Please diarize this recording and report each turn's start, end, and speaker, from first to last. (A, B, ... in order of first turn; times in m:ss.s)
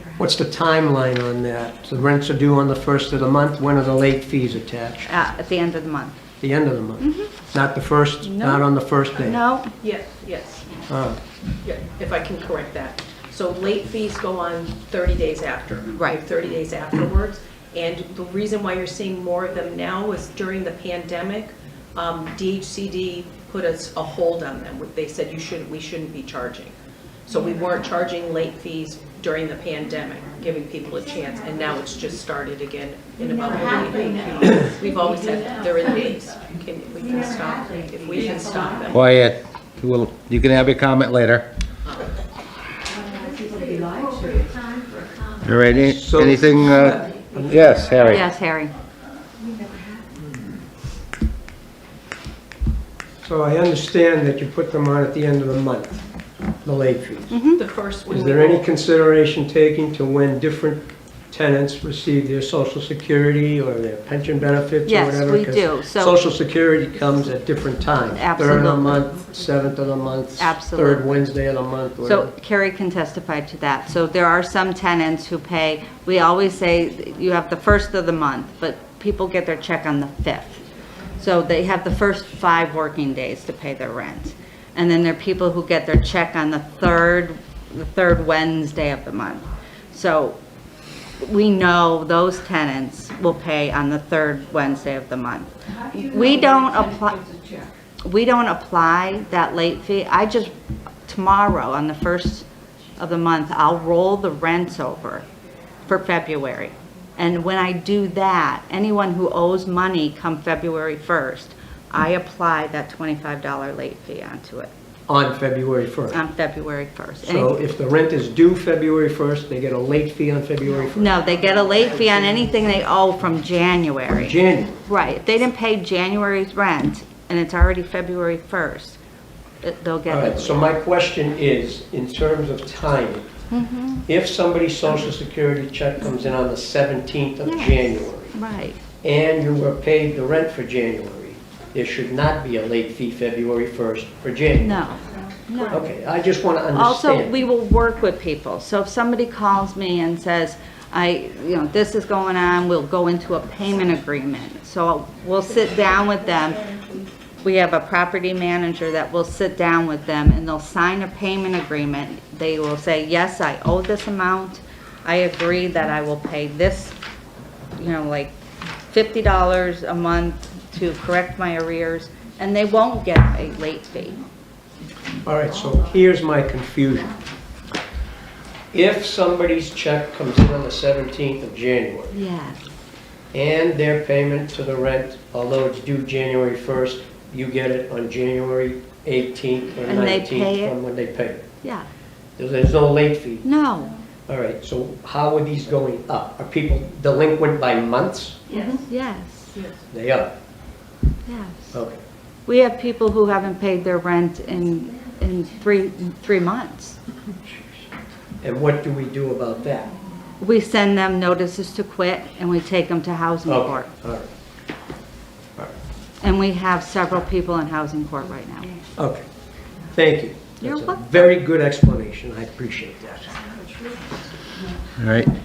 0:00.2-0:05.1 A
0:05.1-0:06.2 B
0:06.4-0:09.4 A
0:07.0-0:07.3 B
0:08.2-0:08.7 B
0:09.2-0:09.7 B
0:09.8-0:10.8 C
0:10.9-0:11.2 A
0:11.6-0:26.8 C
0:15.9-0:16.2 B
0:27.3-0:39.0 C
0:38.9-0:41.5 D
0:43.8-0:44.3 C
0:45.4-0:48.2 D
0:45.8-0:48.2 A
0:48.0-0:48.7 B
0:53.2-0:56.0 A
0:56.6-0:57.4 A
0:57.3-0:57.6 B
0:57.6-0:58.7 C
0:58.1-1:12.3 A
1:04.9-1:06.2 B
1:08.2-1:09.0 B
1:10.4-1:11.2 B
1:12.0-1:20.6 B
1:21.2-1:30.4 B
1:31.2-1:37.3 B
1:38.0-1:40.5 B
1:41.1-1:42.5 B
1:43.0-1:45.2 B
1:45.9-1:54.7 B
1:55.1-1:56.2 A
1:56.1-1:57.5 B
1:57.2-2:02.6 A
2:01.0-2:09.0 B
2:04.1-2:04.8 A
2:09.6-2:10.6 B
2:10.1-2:13.3 A
2:13.5-2:14.1 B
2:14.1-2:18.4 A
2:17.4-2:18.8 B
2:19.0-2:24.8 A
2:24.6-2:25.9 B
2:25.7-2:27.3 A
2:26.7-2:36.8 B
2:37.4-2:47.0 B
2:47.8-2:48.3 B
2:48.9-2:54.2 B
2:55.2-2:57.1 A
2:58.7-3:02.1 A
3:02.1-3:02.6 B
3:03.3-3:11.5 A
3:09.9-3:10.8 B
3:11.6-3:11.9 B
3:12.4-3:13.5 A
3:13.4-3:13.9 B
3:14.3-3:18.4 A
3:18.5-3:19.6 B
3:19.9-3:20.3 A
3:21.3-3:21.8 B
3:21.7-3:22.0 A
3:22.5-3:27.0 B
3:28.4-3:29.9 A
3:30.4-3:33.9 B
3:33.5-3:34.3 A
3:36.2-3:38.8 B
3:39.0-3:39.2 A
3:39.9-3:43.4 A
3:40.6-3:41.3 B
3:45.0-3:45.3 D